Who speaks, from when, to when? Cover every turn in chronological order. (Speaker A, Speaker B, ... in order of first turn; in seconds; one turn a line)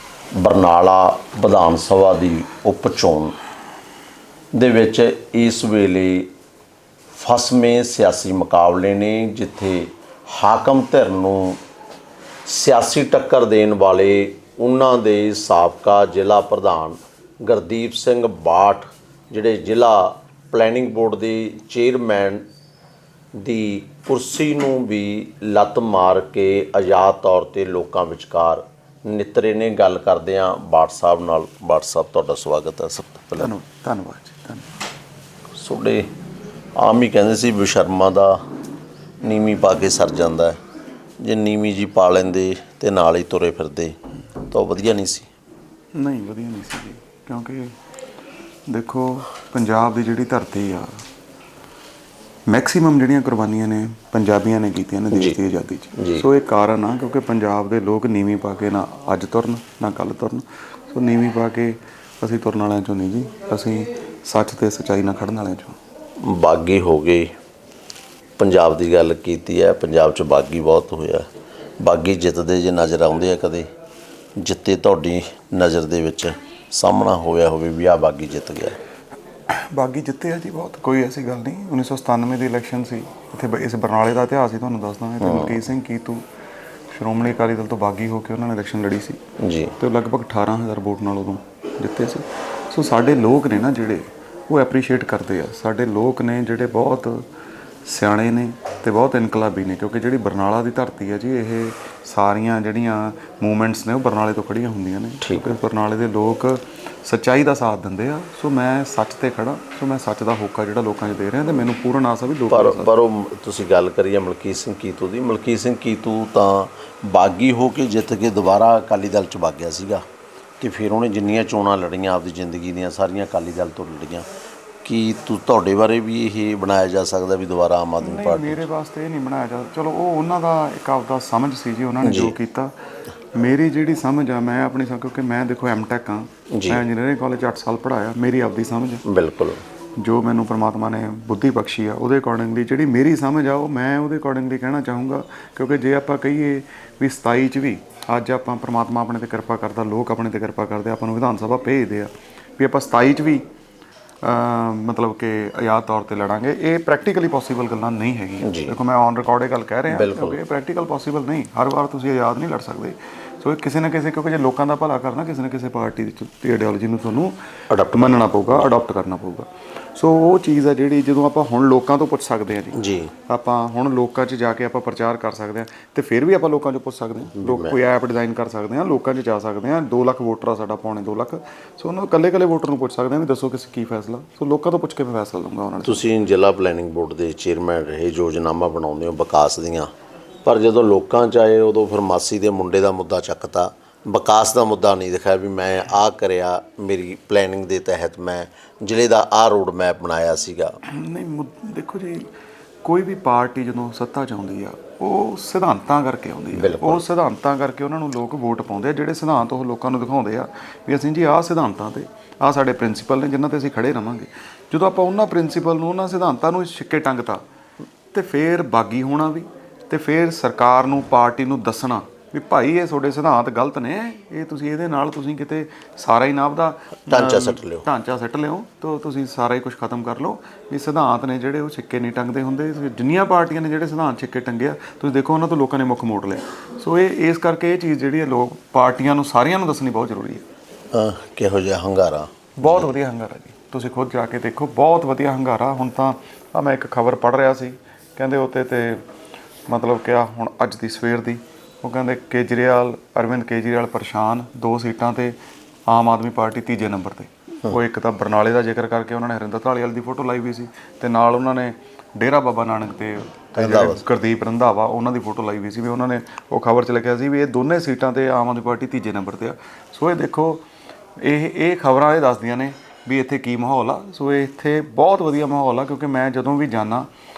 Speaker A: 0.4-3.4
Speaker A: 4.5-6.3
Speaker A: 7.1-11.6
Speaker A: 12.5-22.4
Speaker A: 23.4-33.5
Speaker B: 33.4-34.7
Speaker A: 35.5-36.1
Speaker A: 36.8-38.4
Speaker A: 39.2-40.6
Speaker A: 41.2-44.0
Speaker A: 44.5-45.3
Speaker B: 46.0-47.7
Speaker B: 48.7-50.9
Speaker B: 52.5-65.8
Speaker A: 55.1-55.4
Speaker A: 56.0-56.3
Speaker A: 66.2-67.3
Speaker A: 68.4-71.3
Speaker A: 71.8-73.7
Speaker A: 74.4-78.8
Speaker B: 79.5-86.2
Speaker A: 85.2-85.6
Speaker B: 86.9-89.2
Speaker A: 89.4-89.8
Speaker B: 89.8-97.2
Speaker B: 97.8-112.9
Speaker A: 105.2-105.5
Speaker A: 112.5-120.0
Speaker A: 120.6-124.3
Speaker A: 124.8-128.6
Speaker B: 128.0-132.7
Speaker A: 132.0-132.3
Speaker B: 133.3-139.0
Speaker A: 136.5-136.8
Speaker A: 139.1-139.6
Speaker B: 140.0-153.4
Speaker B: 154.2-167.4
Speaker A: 158.4-158.8
Speaker A: 159.9-160.4
Speaker A: 167.7-168.4
Speaker B: 167.9-186.1
Speaker A: 172.8-173.1
Speaker A: 177.3-177.8
Speaker A: 185.8-189.9
Speaker A: 190.4-200.7
Speaker B: 200.9-202.3
Speaker B: 202.8-217.4
Speaker A: 206.5-207.1
Speaker B: 218.1-240.4
Speaker A: 227.1-227.9
Speaker A: 240.9-242.9
Speaker B: 242.6-249.0
Speaker B: 249.7-255.3
Speaker B: 255.9-270.6
Speaker A: 263.6-264.0
Speaker B: 271.2-277.1